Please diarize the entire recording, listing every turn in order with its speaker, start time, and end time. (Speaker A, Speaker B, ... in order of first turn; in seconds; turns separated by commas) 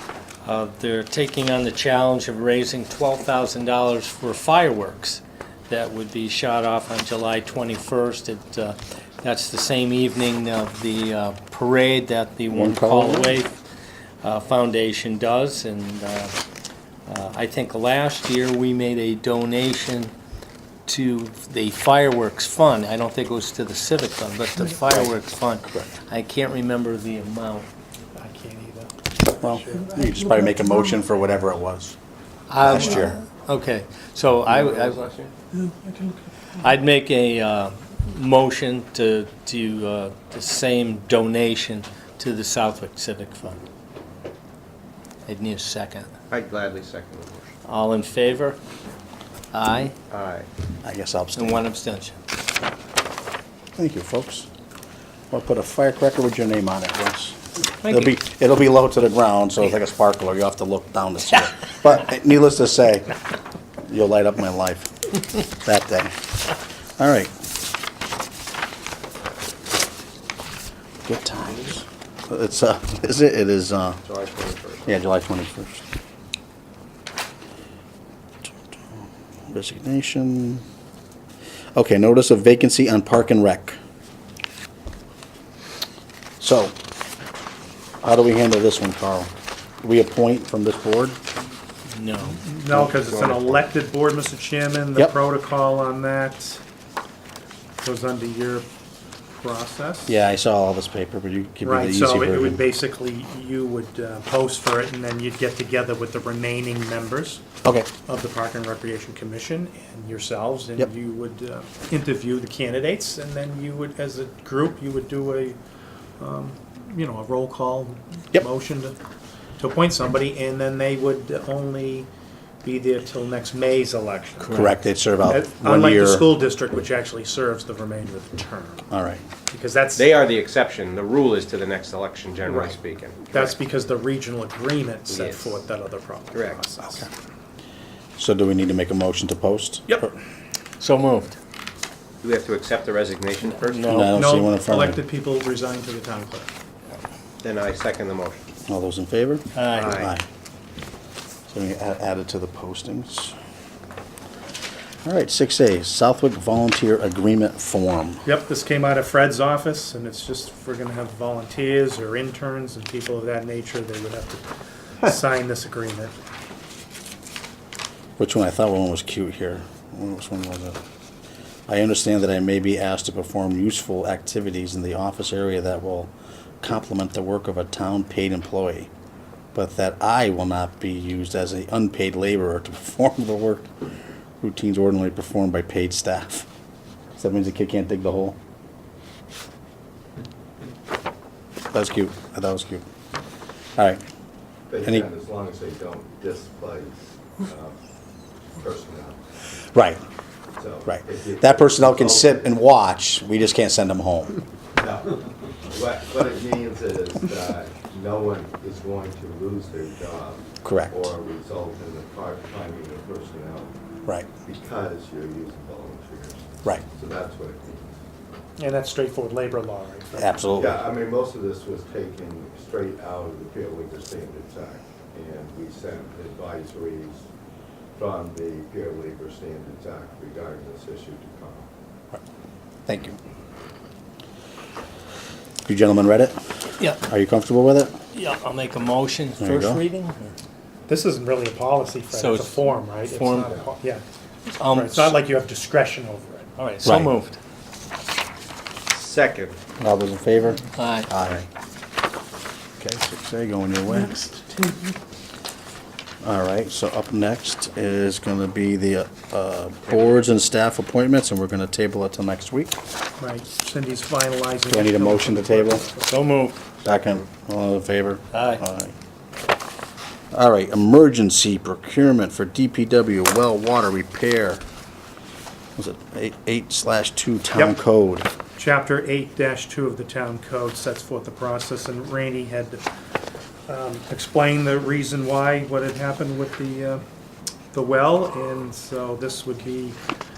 Speaker A: 0.4-13.6, Speaker B: 12.5-13.3, Speaker A: 14.2-16.4, Speaker A: 17.1-20.1, Speaker A: 20.9-27.7, Speaker C: 28.1-29.9, Speaker B: 29.4-31.9, Speaker A: 32.5-35.0, Speaker B: 32.6-33.2, Speaker D: 34.5-35.3, Speaker C: 35.6-36.2, Speaker A: 36.6-43.6, Speaker A: 45.2-46.1, Speaker D: 46.3-47.5, Speaker A: 47.6-48.6, Speaker A: 49.5-49.9, Speaker D: 50.1-50.5, Speaker B: 50.8-51.6, Speaker A: 51.4-52.2, Speaker B: 53.8-54.5, Speaker B: 55.3-63.1, Speaker A: 57.8-58.1, Speaker B: 63.9-64.9, Speaker B: 65.5-66.1, Speaker B: 67.0-67.3, Speaker B: 71.0-74.0, Speaker D: 74.0-74.9, Speaker B: 74.9-75.8, Speaker B: 78.4-80.6, Speaker B: 81.7-83.8, Speaker B: 86.4-86.7, Speaker B: 88.0-89.3, Speaker B: 89.8-91.2, Speaker A: 91.9-92.4, Speaker C: 92.2-96.6, Speaker B: 92.7-93.6, Speaker C: 97.8-98.7, Speaker C: 99.4-100.1, Speaker B: 100.1-102.6, Speaker C: 101.6-107.4, Speaker C: 108.1-115.6, Speaker C: 116.2-118.9, Speaker C: 119.6-122.1, Speaker C: 122.6-124.7, Speaker A: 124.5-124.7, Speaker B: 124.5-126.2, Speaker C: 125.2-128.9, Speaker B: 128.9-129.2, Speaker C: 129.5-130.1, Speaker D: 129.9-133.5, Speaker C: 132.4-132.8, Speaker C: 133.3-137.1, Speaker D: 135.1-135.5, Speaker D: 136.3-136.6, Speaker B: 138.2-140.1, Speaker A: 140.8-141.4, Speaker D: 142.2-144.0, Speaker A: 143.5-144.1, Speaker B: 143.9-145.0, Speaker C: 144.0-146.5, Speaker D: 147.4-148.4, Speaker B: 148.7-150.2, Speaker A: 149.5-150.0, Speaker D: 149.7-150.1, Speaker B: 151.5-153.3, Speaker B: 155.0-158.2, Speaker C: 158.2-164.4, Speaker C: 165.0-166.1, Speaker B: 168.2-170.8, Speaker B: 171.7-178.9, Speaker B: 179.5-183.7, Speaker B: 184.4-186.5, Speaker B: 187.2-188.3, Speaker B: 191.7-192.8, Speaker B: 193.8-194.0, Speaker E: 194.7-197.8, Speaker E: 198.6-199.2, Speaker B: 199.7-200.0, Speaker E: 200.6-202.5, Speaker B: 200.9-204.3, Speaker E: 204.8-213.7, Speaker B: 210.6-211.1, Speaker E: 214.4-218.0, Speaker C: 218.6-220.4, Speaker B: 220.1-220.8, Speaker E: 220.5-227.2, Speaker E: 227.9-231.7, Speaker B: 232.8-233.2, Speaker B: 235.7-236.4, Speaker B: 237.0-237.9, Speaker A: 238.1-240.3, Speaker B: 239.4-239.8, Speaker C: 240.9-244.0, Speaker A: 242.1-243.6, Speaker E: 243.3-243.7, Speaker A: 244.5-245.1, Speaker C: 244.6-246.5, Speaker A: 246.6-247.4, Speaker B: 246.8-247.1, Speaker D: 248.9-249.6, Speaker B: 249.8-251.4, Speaker A: 250.8-251.1, Speaker B: 252.8-254.2, Speaker B: 256.2-262.8, Speaker C: 263.2-266.1, Speaker B: 264.7-265.8, Speaker A: 266.0-266.6, Speaker B: 266.8-268.9, Speaker A: 268.3-268.6, Speaker B: 270.3-274.6, Speaker B: 275.8-278.3, Speaker C: 278.5-282.8, Speaker C: 283.7-287.0, Speaker C: 287.7-290.0